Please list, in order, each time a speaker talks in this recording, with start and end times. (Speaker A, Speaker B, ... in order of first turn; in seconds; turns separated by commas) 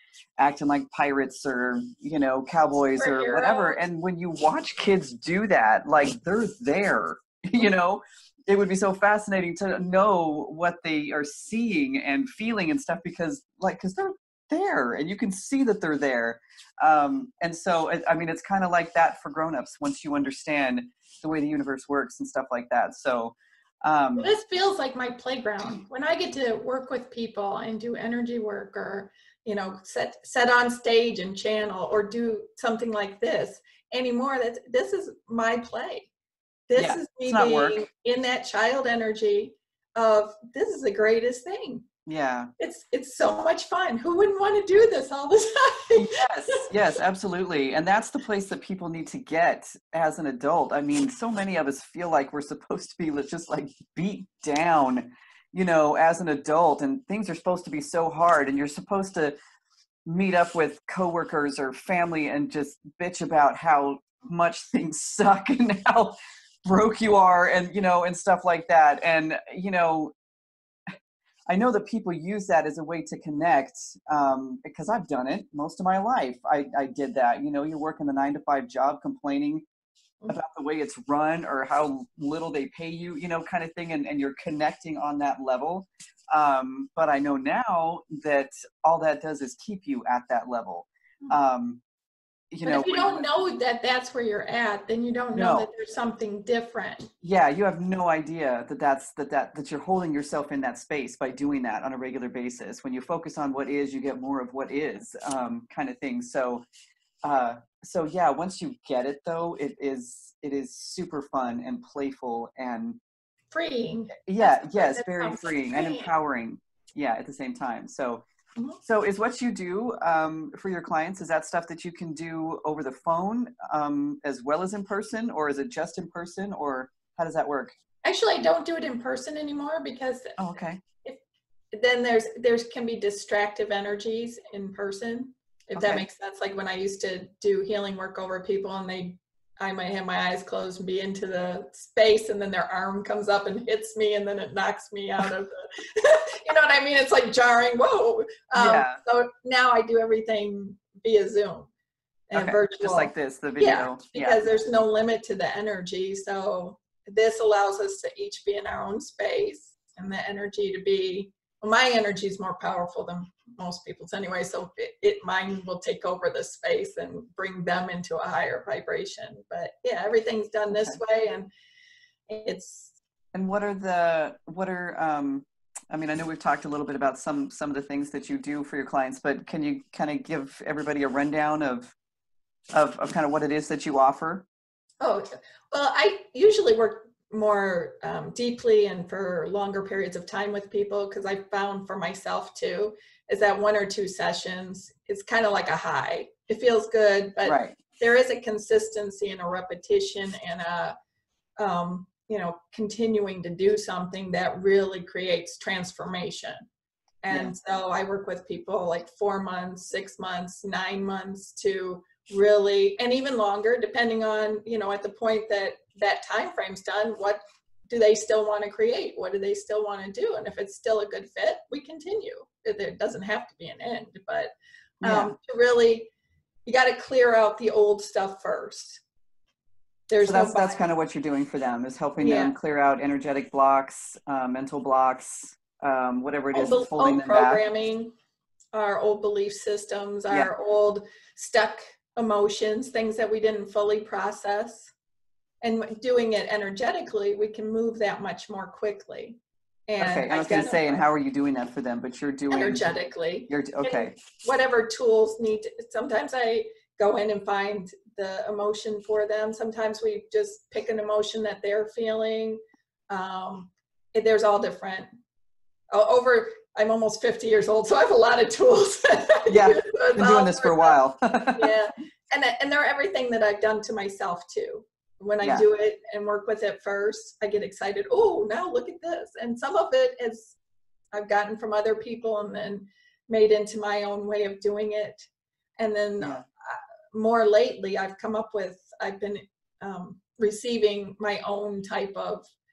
Speaker A: 0.4-24.3, Speaker B: 3.0-3.8, Speaker B: 24.2-36.1, Speaker B: 36.7-41.9, Speaker A: 36.8-37.9, Speaker A: 42.0-42.5, Speaker B: 42.6-46.7, Speaker A: 46.0-59.4, Speaker A: 60.0-70.1, Speaker A: 71.5-79.6, Speaker A: 80.3-91.8, Speaker A: 92.5-93.2, Speaker B: 92.6-97.1, Speaker A: 95.3-95.7, Speaker A: 97.2-106.6, Speaker A: 107.2-113.0, Speaker B: 113.5-116.1, Speaker A: 114.2-118.2, Speaker A: 118.8-127.7, Speaker B: 128.0-130.4, Speaker A: 130.4-130.8, Speaker B: 131.7-151.7, Speaker A: 135.7-136.0, Speaker A: 148.5-149.0, Speaker B: 152.3-171.5, Speaker A: 152.3-154.6, Speaker A: 170.7-171.0, Speaker B: 172.3-172.9, Speaker A: 173.3-181.9, Speaker A: 182.7-184.4, Speaker B: 185.0-200.9, Speaker A: 197.4-197.8, Speaker B: 201.6-206.6, Speaker B: 207.2-226.1, Speaker A: 225.0-225.3, Speaker B: 226.7-229.0, Speaker B: 230.1-230.9, Speaker A: 230.2-237.6, Speaker B: 232.2-232.6, Speaker B: 236.5-238.1, Speaker B: 238.7-244.9, Speaker B: 245.6-251.0, Speaker A: 250.0-252.9, Speaker B: 252.5-262.6, Speaker A: 253.5-254.1, Speaker B: 263.1-265.1, Speaker B: 265.9-271.0, Speaker A: 269.5-271.7, Speaker B: 271.5-280.6, Speaker B: 281.1-292.5